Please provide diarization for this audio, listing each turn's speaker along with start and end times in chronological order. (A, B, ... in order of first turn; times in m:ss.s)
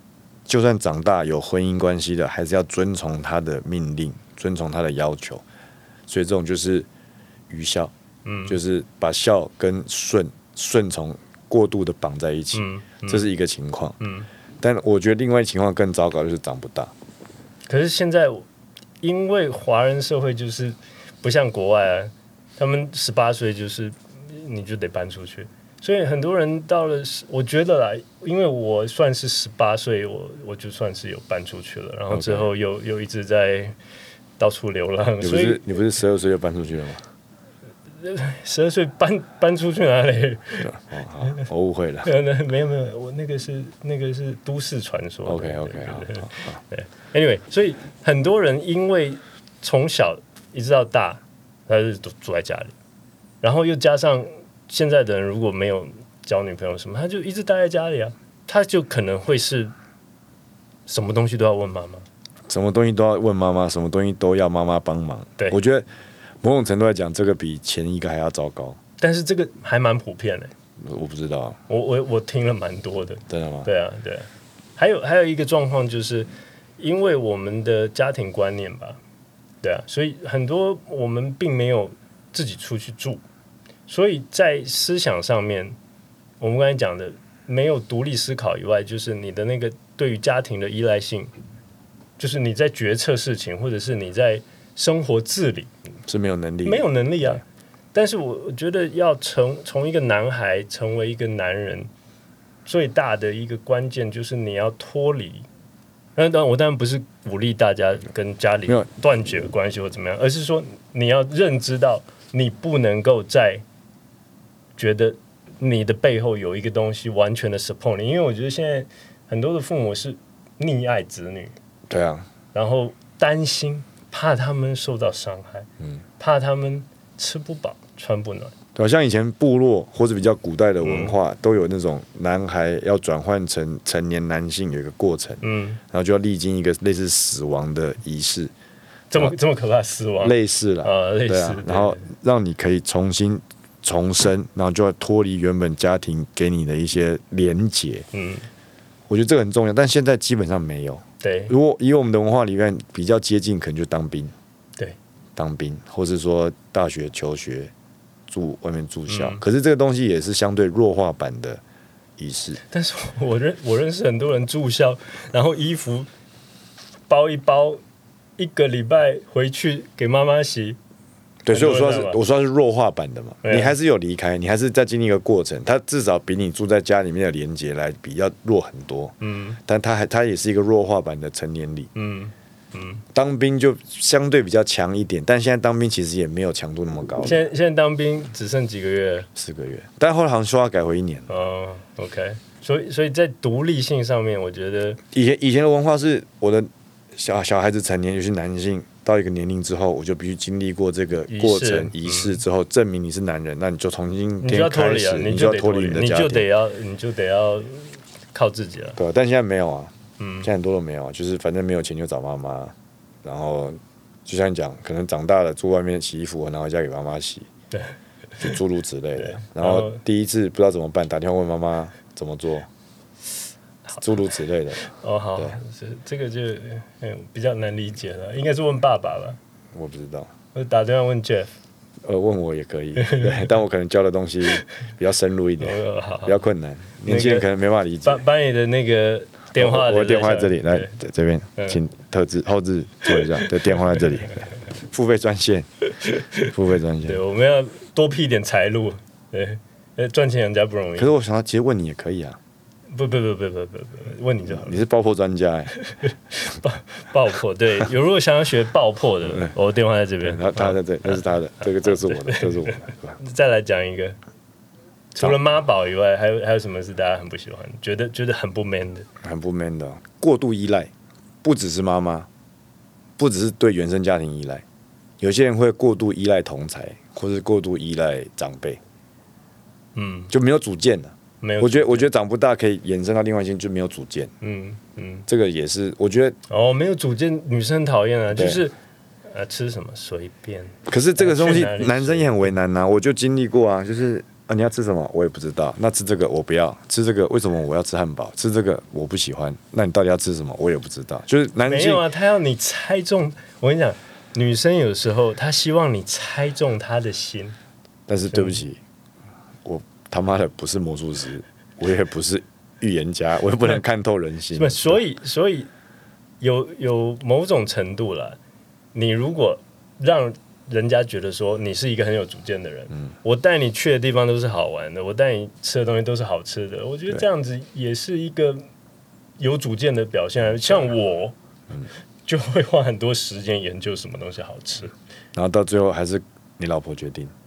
0:00.5-0:05.4 A
0:06.1-0:06.9 A
0:07.5-0:07.9 A
0:08.2-0:08.6 B
0:08.4-0:14.0 A
0:12.5-0:13.2 B
0:14.0-0:14.3 B
0:14.6-0:16.9 A
0:17.6-0:18.4 B
0:19.0-0:33.8 B
0:32.1-0:32.5 A
0:34.4-0:35.6 B
0:35.2-0:37.0 A
0:37.9-0:40.7 B
0:40.6-0:42.1 A
0:42.0-0:52.7 B
0:45.2-0:46.6 A
0:53.4-0:59.7 B
1:00.9-1:02.0 B
1:02.5-1:05.9 A
1:06.4-1:08.8 A
1:09.0-1:10.5 B
1:10.8-1:11.6 A
1:11.7-1:19.0 B
1:13.3-1:13.7 A
1:19.6-1:23.2 B
1:23.9-1:25.8 B
1:26.4-1:31.3 B
1:32.2-1:35.7 B
1:36.1-1:37.4 A
1:36.6-1:37.4 B
1:37.9-1:41.9 B
1:42.6-1:45.5 B
1:46.2-1:53.6 B
1:54.8-2:01.5 B
2:01.9-2:02.3 A
2:02.5-2:05.7 B
2:06.2-2:08.5 B
2:08.7-2:18.5 A
2:10.8-2:11.2 B
2:15.4-2:15.8 B
2:19.1-2:22.0 B
2:20.2-2:28.1 A
2:28.1-2:28.5 B
2:29.1-2:34.3 A
2:31.2-2:31.5 B
2:35.4-2:37.7 A
2:38.3-2:41.6 A
2:39.1-2:39.4 B
2:42.2-2:42.6 A
2:42.7-2:46.1 B
2:47.1-2:47.8 B
2:48.4-2:50.8 B
2:51.4-2:59.1 A
2:51.5-2:52.2 B
2:53.4-2:53.8 B
2:59.2-2:59.6 B
2:59.6-3:01.9 A
3:01.9-3:03.0 B
3:03.1-3:07.4 A
3:07.2-3:09.3 B
3:09.4-3:11.3 A
3:11.3-3:15.0 B
3:15.1-3:26.5 A
3:21.3-3:22.4 B
3:24.4-3:29.0 B
3:29.0-3:37.5 A
3:30.2-3:30.5 B
3:37.7-3:38.5 B
3:38.4-3:42.7 A
3:39.2-3:40.0 B
3:44.0-3:45.6 A
3:44.8-3:49.4 B
3:49.7-3:50.3 A
3:50.5-3:51.5 B
3:52.0-3:58.2 A
3:53.0-3:53.5 B
3:55.6-3:56.4 B
3:57.0-3:57.4 B
3:58.0-4:00.9 B
3:59.5-4:05.7 A
4:03.0-4:04.0 B
4:05.9-4:06.4 B
4:06.4-4:07.2 A
4:07.0-4:11.1 B
4:11.0-4:12.4 A
4:12.9-4:14.8 B
4:14.5-4:15.8 A
4:15.8-4:24.2 B
4:19.2-4:19.5 A
4:20.2-4:23.2 A
4:25.1-4:29.1 B
4:29.2-4:30.9 A
4:31.4-4:32.3 A
4:33.2-4:34.6 A
4:35.2-4:38.8 A
4:39.9-4:40.3 B
4:40.3-4:44.3 A
4:41.4-4:42.1 B
4:44.4-4:45.2 B
4:45.3-4:46.4 A
4:46.5-4:52.5 B
4:48.3-4:48.6 A
4:50.9-5:02.0 A
5:01.6-5:07.6 B
5:08.1-5:08.8 A
5:08.3-5:08.6 B
5:09.6-5:15.0 A
5:14.5-5:15.7 B
5:16.4-5:18.4 B
5:18.9-5:28.6 B
5:29.4-5:31.4 B
5:32.2-5:34.9 B
5:35.3-5:37.3 A